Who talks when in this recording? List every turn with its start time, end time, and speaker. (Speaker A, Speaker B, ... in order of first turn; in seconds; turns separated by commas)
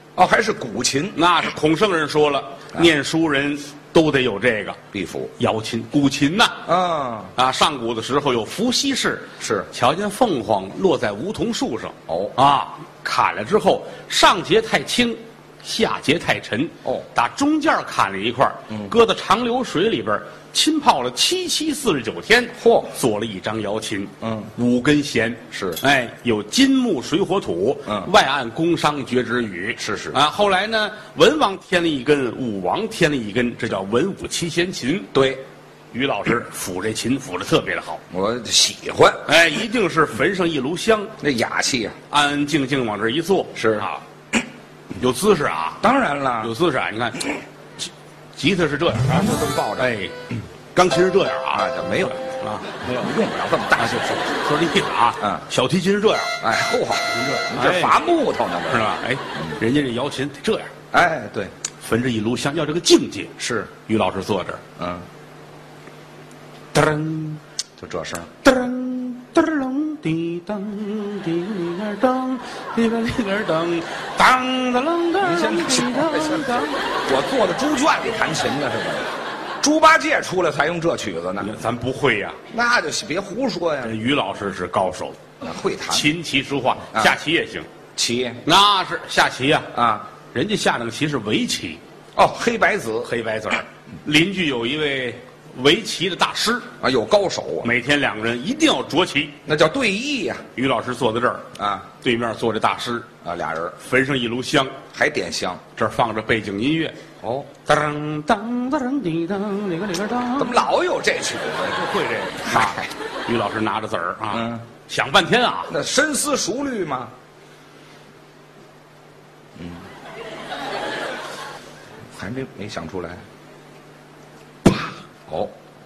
Speaker A: 0.1-1.2, Speaker B: 1.1-4.8, Speaker A: 4.9-5.3, Speaker B: 5.4-6.6, Speaker A: 6.7-7.3, Speaker B: 7.3-35.1, Speaker A: 9.4-9.7, Speaker A: 12.1-12.3, Speaker A: 18.7-18.9, Speaker A: 22.6-22.9, Speaker A: 24.2-24.5, Speaker A: 25.5-25.8, Speaker A: 27.9-28.1, Speaker A: 29.8-30.2, Speaker A: 35.1-35.4, Speaker B: 35.9-38.0, Speaker A: 38.1-39.2, Speaker B: 39.2-41.1, Speaker A: 41.2-42.0, Speaker B: 42.1-43.9, Speaker A: 43.5-44.0, Speaker B: 45.0-45.8, Speaker A: 45.8-46.5, Speaker B: 46.4-53.1, Speaker A: 49.0-49.9, Speaker A: 51.5-52.3, Speaker A: 52.8-54.2, Speaker B: 53.8-56.4, Speaker A: 56.4-59.6, Speaker B: 57.1-58.0, Speaker B: 58.7-60.7, Speaker A: 60.9-61.5, Speaker B: 61.8-64.6, Speaker A: 63.4-63.7, Speaker A: 64.8-65.0, Speaker B: 66.7-67.4, Speaker A: 67.8-68.3, Speaker B: 68.4-76.8, Speaker A: 75.2-79.1, Speaker A: 79.6-81.6, Speaker B: 81.4-82.4, Speaker A: 82.5-84.0, Speaker B: 83.8-85.2, Speaker A: 85.4-86.1, Speaker B: 85.9-87.7, Speaker A: 86.9-87.2, Speaker A: 88.0-88.4, Speaker B: 88.4-89.7, Speaker A: 89.7-90.1, Speaker B: 90.3-91.8, Speaker A: 92.2-93.1, Speaker B: 93.0-96.7, Speaker A: 96.8-97.7, Speaker B: 97.6-99.4, Speaker A: 99.5-100.4, Speaker B: 100.5-101.5, Speaker A: 101.5-101.9, Speaker B: 102.0-103.1, Speaker A: 103.2-103.8, Speaker B: 103.8-104.8, Speaker A: 104.9-105.6, Speaker B: 105.7-107.0, Speaker A: 107.2-107.5, Speaker B: 107.6-110.6, Speaker A: 110.4-111.9, Speaker B: 111.7-115.7, Speaker A: 112.4-112.9, Speaker A: 114.3-114.6, Speaker A: 115.7-117.1, Speaker A: 119.6-119.8, Speaker A: 122.2-123.2, Speaker A: 124.7-125.5